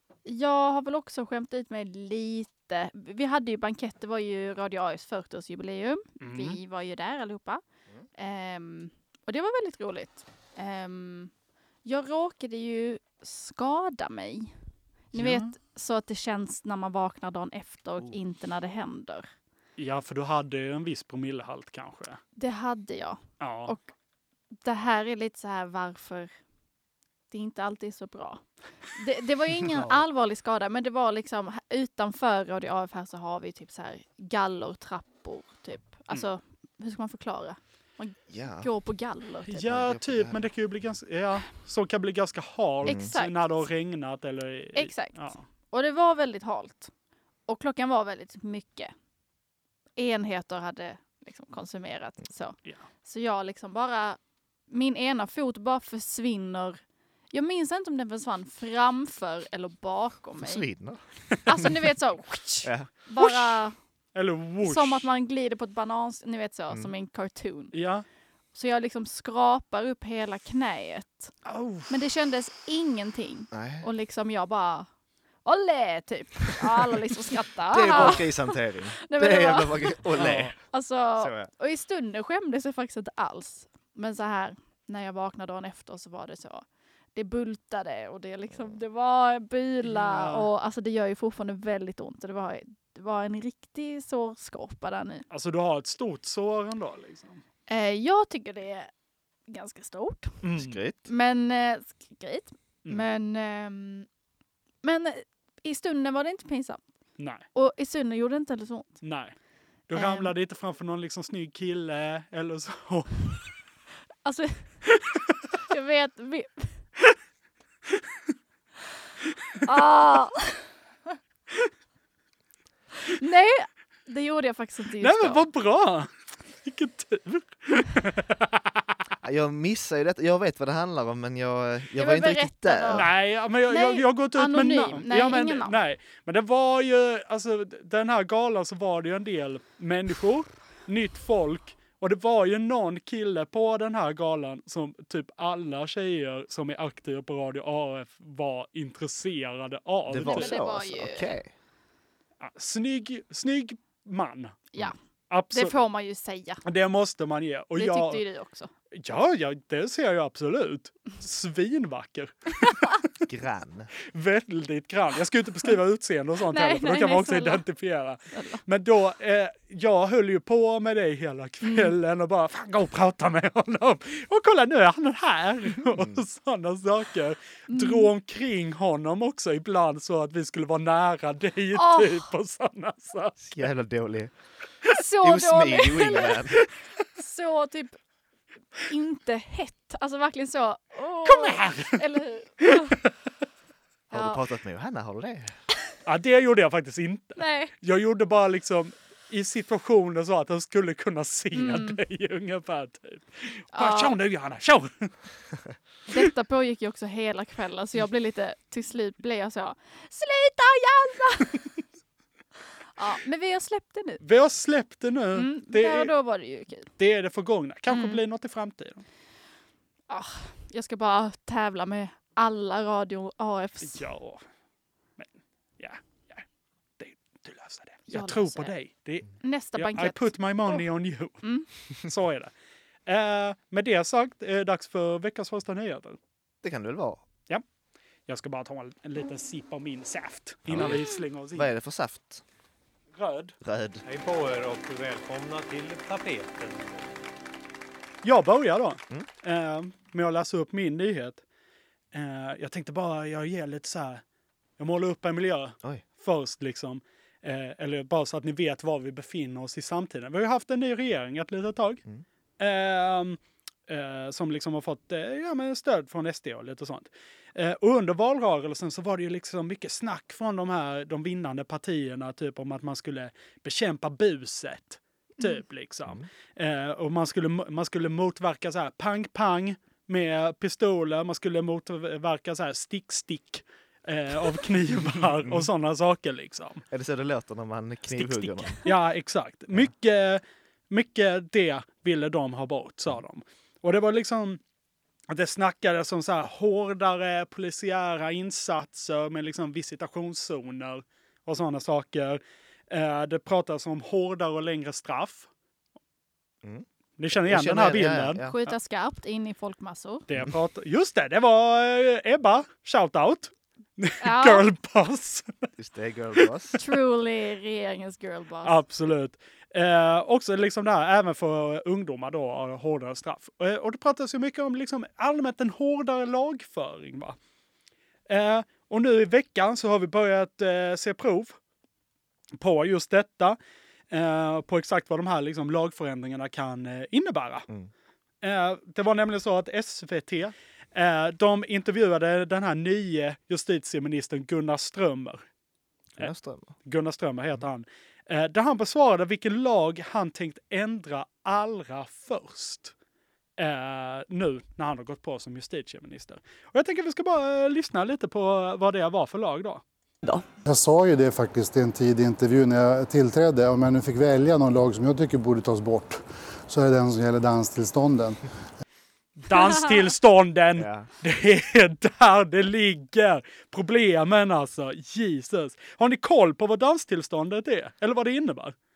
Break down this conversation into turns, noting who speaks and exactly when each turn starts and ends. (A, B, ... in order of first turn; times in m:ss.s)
0:00.2-0:07.6 A
0:06.2-0:06.6 B
0:08.1-0:11.3 A
0:11.8-0:14.5 A
0:15.1-0:19.3 A
0:15.1-0:15.5 B
0:19.8-0:22.2 B
0:22.4-0:23.9 A
0:23.4-0:23.8 B
0:24.6-0:26.3 A
0:27.3-0:39.7 A
0:29.6-0:30.0 C
0:38.3-0:38.7 C
0:39.5-0:45.4 B
0:39.6-0:40.4 C
0:42.8-0:43.1 C
0:42.8-0:43.4 A
0:44.8-0:46.9 A
0:47.5-0:48.9 A
0:50.0-0:54.2 A
0:54.7-0:56.8 A
0:57.3-1:00.6 A
1:00.4-1:01.0 C
1:01.4-1:03.8 A
1:02.6-1:02.9 C
1:03.2-1:03.5 B
1:04.1-1:05.1 B
1:04.6-1:07.7 A
1:07.7-1:08.0 B
1:08.5-1:11.3 A
1:11.4-1:11.9 B
1:11.9-1:14.9 A
1:13.5-1:13.9 C
1:15.4-1:20.0 A
1:17.7-1:20.6 C
1:20.1-1:20.5 B
1:20.7-1:35.2 A
1:21.2-1:21.5 C
1:29.8-1:30.5 B
1:35.3-1:37.4 B
1:37.7-1:38.9 A
1:39.5-1:40.4 A
1:40.4-1:40.8 B
1:40.6-1:41.0 C
1:41.0-1:44.1 A
1:44.8-1:46.8 A
1:47.2-1:47.4 B
1:47.5-1:49.0 A
1:49.0-1:49.3 B
1:49.9-1:53.4 B
1:49.9-1:50.3 A
1:54.2-1:54.8 A
1:55.7-1:56.8 A
1:59.6-2:00.6 A
2:03.0-2:05.4 A
2:05.0-2:08.6 B
2:09.2-2:13.1 C
2:12.0-2:13.1 A
2:12.9-2:30.5 B
2:13.7-2:15.8 A
2:30.1-2:31.5 C
2:30.2-2:31.3 A
2:32.4-2:34.7 B
2:35.3-2:35.8 B
2:35.5-2:36.6 A
2:36.6-2:38.2 B
2:37.8-2:38.7 A
2:38.9-2:42.9 B
2:43.2-2:43.9 C
2:44.1-3:03.6 B
2:46.4-2:47.6 A
2:48.3-2:48.6 A
2:51.6-2:51.9 A
2:55.9-2:56.2 C
2:57.7-2:58.1 A
3:01.7-3:02.2 A
3:03.4-3:04.3 C
3:04.9-3:06.4 A
3:05.2-3:06.6 C
3:07.2-3:08.0 A
3:08.9-3:13.0 A
3:11.2-3:12.0 B
3:12.6-3:12.9 B
3:14.1-3:15.6 C
3:14.1-3:14.4 A
3:16.1-3:25.1 B
3:17.4-3:17.7 A
3:21.5-3:22.0 A
3:23.7-3:24.1 A
3:26.1-3:31.6 A
3:33.0-3:34.2 A
3:34.2-3:36.1 B
3:35.4-3:36.9 A
3:37.0-3:39.0 B
3:37.9-3:38.2 A
3:40.1-3:44.0 A
3:43.8-3:44.4 B
3:45.2-3:46.4 B
3:47.0-3:51.4 B
3:48.1-3:48.7 A
3:49.4-3:50.8 A
3:52.0-3:52.5 B
3:53.1-3:56.2 B
3:56.6-3:57.2 C
3:58.3-4:01.7 B
4:00.7-4:02.4 C
4:03.1-4:03.5 B
4:03.6-4:04.0 C
4:04.0-4:07.2 D
4:08.2-4:11.4 B
4:12.1-4:14.2 B
4:14.8-4:22.0 B
4:22.6-4:46.8 B
4:46.9-4:48.8 C
4:48.1-4:54.6 B
4:55.3-5:05.5 B
5:06.6-5:08.5 C
5:07.2-5:08.5 B
5:08.4-5:10.2 A
5:10.3-5:15.7 B
5:14.2-5:14.7 A
5:15.8-5:16.8 C
5:16.8-5:18.8 A
5:18.6-5:27.4 B
5:28.3-5:31.6 B
5:32.6-5:33.6 B
5:34.1-5:37.6 B
5:38.4-5:45.4 B
5:46.2-5:46.7 C
5:46.8-5:52.9 B
5:53.6-5:59.8 B
6:00.6-6:08.4 E
6:09.4-6:18.7 B
6:10.8-6:11.1 C